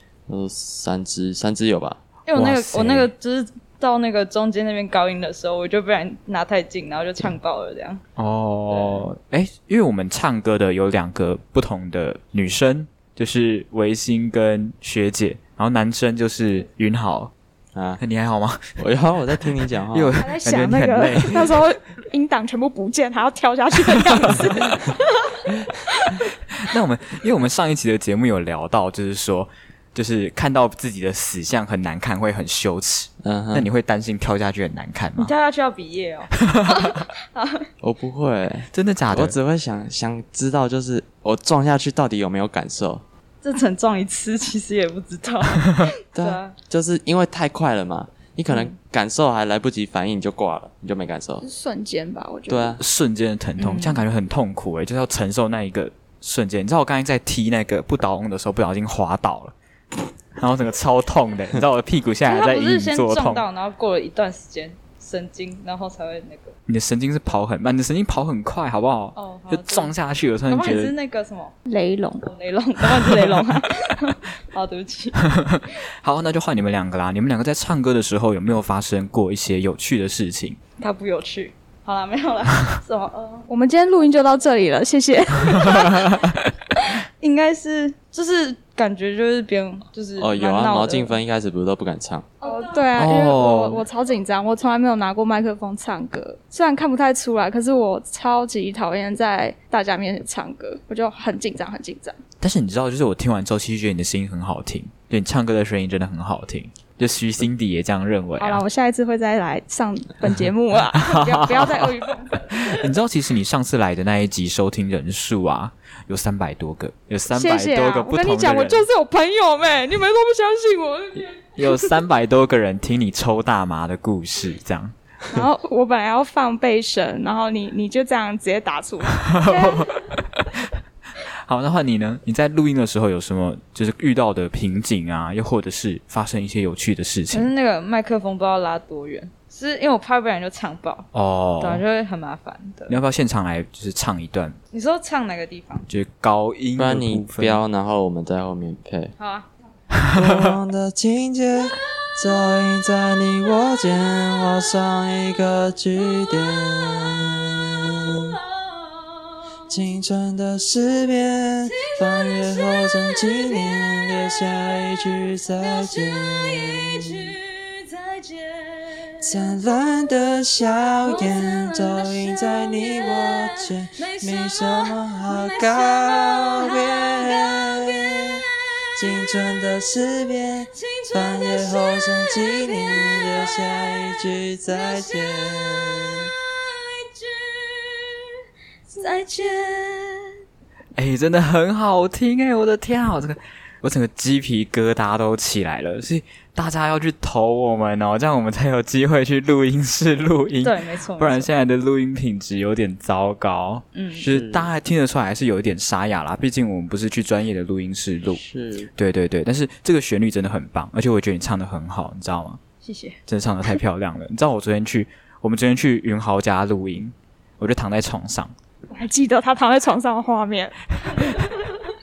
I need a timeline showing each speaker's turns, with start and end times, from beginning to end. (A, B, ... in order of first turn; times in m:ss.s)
0:00.3-0:02.0 A
0:02.3-0:08.0 B
0:02.4-0:03.1 C
0:08.2-0:17.3 C
0:08.7-0:09.1 B
0:17.8-0:18.0 A
0:18.0-0:18.7 C
0:18.8-0:20.2 A
0:19.9-0:21.6 C
0:20.2-0:25.4 D
0:25.9-0:26.2 D
0:26.6-0:35.3 C
0:33.2-0:33.7 A
0:35.2-0:37.7 B
0:36.4-0:36.7 C
0:37.8-0:43.0 A
0:38.7-0:39.4 C
0:43.4-0:46.5 B
0:46.1-0:51.4 A
0:51.4-0:52.8 D
0:52.5-0:52.8 A
0:52.8-0:59.6 C
1:00.4-1:03.4 C
1:02.3-1:06.6 B
1:06.7-1:10.9 C
1:09.2-1:09.9 B
1:10.5-1:11.5 B
1:11.7-1:12.3 D
1:12.2-1:15.2 B
1:15.3-1:20.6 C
1:20.8-1:23.5 B
1:23.5-1:26.2 D
1:25.6-1:26.3 C
1:27.2-1:31.2 B
1:30.2-1:32.3 A
1:32.4-1:42.2 D
1:32.9-1:33.8 C
1:42.4-1:48.6 C
1:48.4-1:52.8 D
1:50.9-1:58.9 C
1:57.3-2:01.9 D
2:01.6-2:04.9 C
2:05.3-2:09.9 D
2:09.2-2:17.5 C
2:17.3-2:21.1 B
2:21.1-2:21.8 C
2:21.6-2:23.0 B
2:22.9-2:24.6 C
2:24.7-2:25.9 B
2:25.9-2:27.6 C
2:26.8-2:29.1 A
2:29.2-2:29.5 B
2:30.2-2:38.4 E
2:38.1-2:39.4 B
2:39.7-2:47.1 E
2:41.6-2:44.7 B
2:45.6-2:49.4 B
2:49.2-2:58.4 E
2:51.0-2:58.4 B
2:59.0-3:06.3 E
3:00.7-3:08.2 B
3:08.9-3:10.3 B
3:11.0-3:28.4 C
3:20.6-3:21.5 B
3:23.9-3:24.3 B
3:24.3-3:24.7 A
3:28.3-3:28.9 A
3:29.0-3:32.6 C
3:32.8-3:33.2 B
3:33.3-3:38.5 C
3:38.9-3:41.4 D